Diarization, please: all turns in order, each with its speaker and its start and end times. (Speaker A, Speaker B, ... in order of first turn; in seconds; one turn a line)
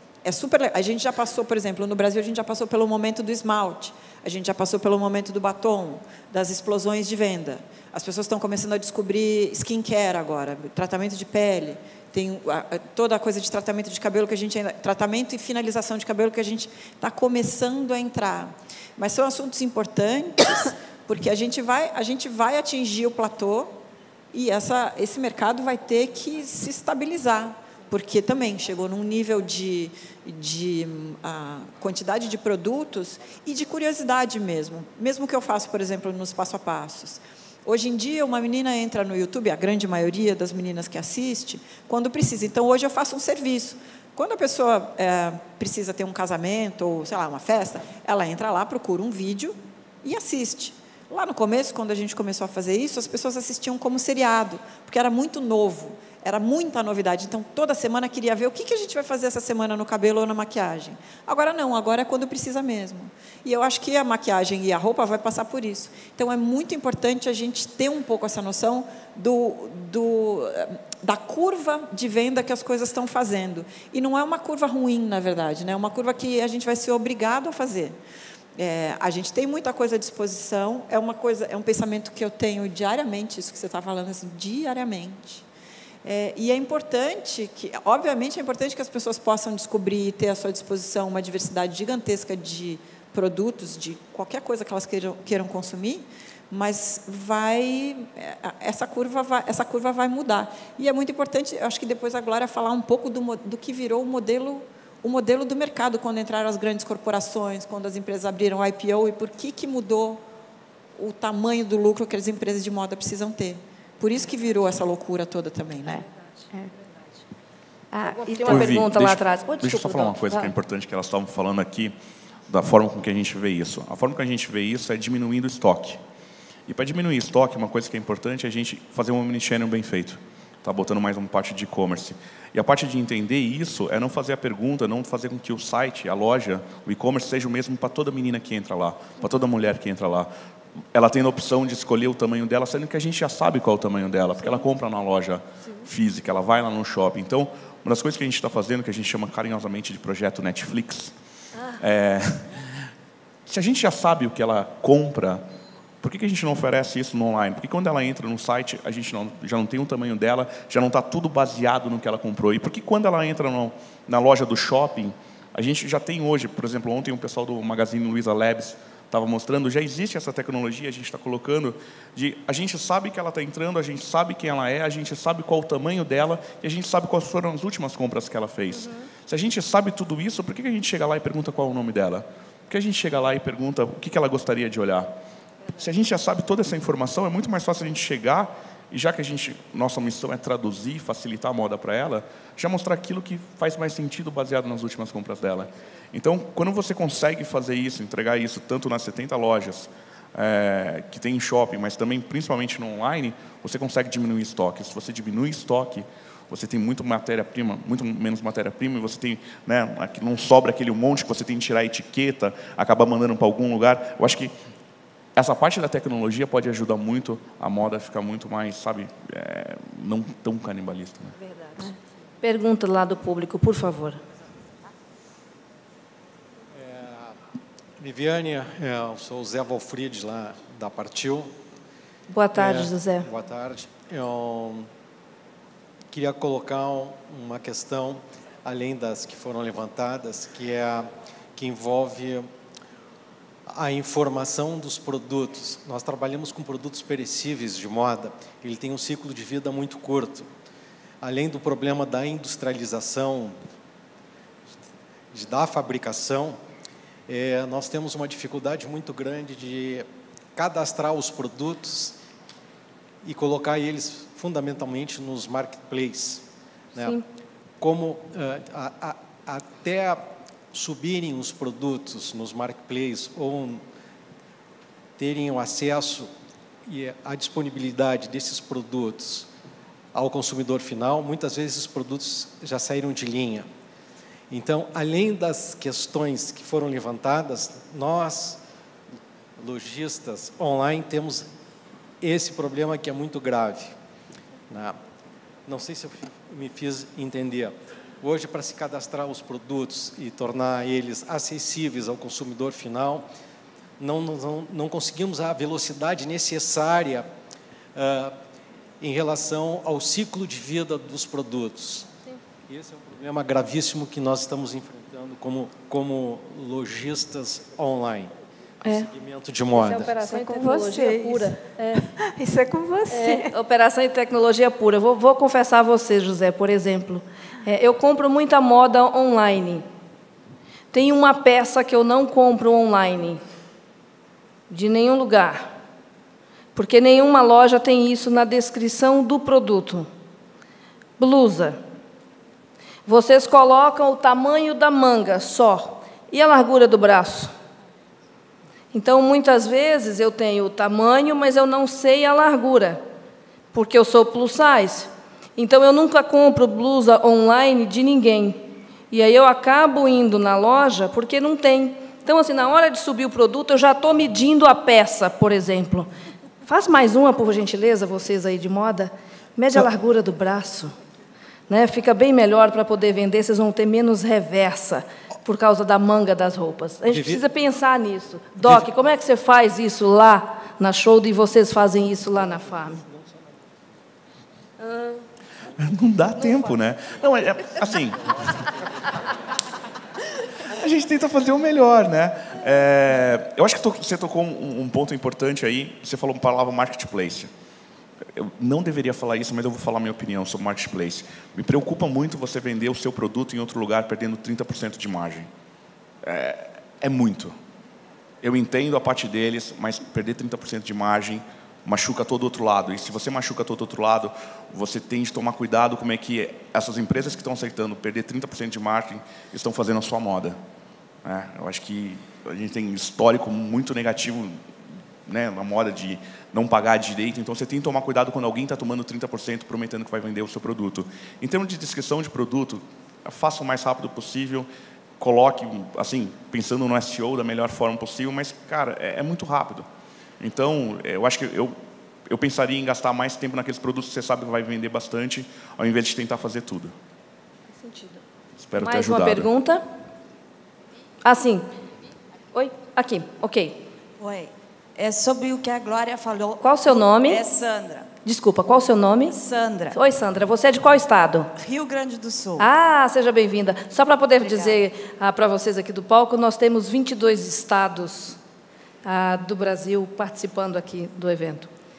Speaker A: 0.2-23.8
Speaker A: 24.3-78.0
Speaker A: 78.5-85.4
Speaker A: 86.0-110.2
Speaker A: 111.0-116.0
Speaker B: 117.9-118.8
Speaker C: 118.0-120.5
Speaker D: 118.5-121.9
Speaker D: 122.5-126.0
Speaker D: 126.7-140.3
Speaker D: 140.9-151.1
Speaker D: 151.8-152.9
Speaker D: 153.5-155.4
Speaker D: 156.0-185.1
Speaker D: 185.7-214.5
Speaker D: 215.3-221.3
Speaker C: 221.5-221.9
Speaker C: 222.4-224.2
Speaker E: 226.7-227.4
Speaker E: 228.0-231.6
Speaker C: 232.3-233.3
Speaker E: 232.5-234.9
Speaker E: 236.1-242.5
Speaker E: 243.7-250.5
Speaker E: 251.2-253.6
Speaker E: 255.3-256.6
Speaker E: 257.3-262.2
Speaker E: 263.2-267.2
Speaker C: 267.0-267.2
Speaker E: 267.8-273.8
Speaker E: 275.2-276.3
Speaker E: 276.9-279.5
Speaker E: 280.1-283.7
Speaker E: 284.5-288.6
Speaker E: 289.6-291.5
Speaker E: 292.2-293.9
Speaker E: 294.7-295.0
Speaker E: 295.6-303.3
Speaker E: 304.0-307.3
Speaker E: 307.9-308.4
Speaker E: 309.0-312.1
Speaker E: 312.7-320.2
Speaker C: 318.8-319.1
Speaker C: 319.7-322.1
Speaker B: 320.1-323.5
Speaker C: 323.1-329.9
Speaker C: 330.9-333.4
Speaker C: 334.7-335.7
Speaker C: 336.7-340.1
Speaker C: 341.2-341.8
Speaker C: 343.1-347.5
Speaker C: 348.9-353.0
Speaker C: 353.7-366.1
Speaker C: 366.6-370.9
Speaker C: 371.7-383.0
Speaker E: 377.1-377.4
Speaker E: 383.0-383.4
Speaker C: 384.8-385.2
Speaker D: 385.8-388.5
Speaker C: 386.4-386.7
Speaker D: 390.6-397.5
Speaker D: 398.3-405.5
Speaker D: 406.2-407.5
Speaker D: 408.4-420.6
Speaker D: 421.2-424.6
Speaker D: 425.2-434.7
Speaker D: 435.2-439.9
Speaker D: 440.4-446.9
Speaker C: 447.7-448.2
Speaker D: 448.6-449.5
Speaker C: 448.7-449.8
Speaker C: 451.2-451.6
Speaker C: 452.5-453.8
Speaker F: 454.2-458.1
Speaker C: 456.6-457.4
Speaker C: 458.2-461.5
Speaker F: 459.3-460.0
Speaker F: 461.6-462.7
Speaker C: 462.6-468.4
Speaker F: 464.4-464.8
Speaker C: 469.0-471.7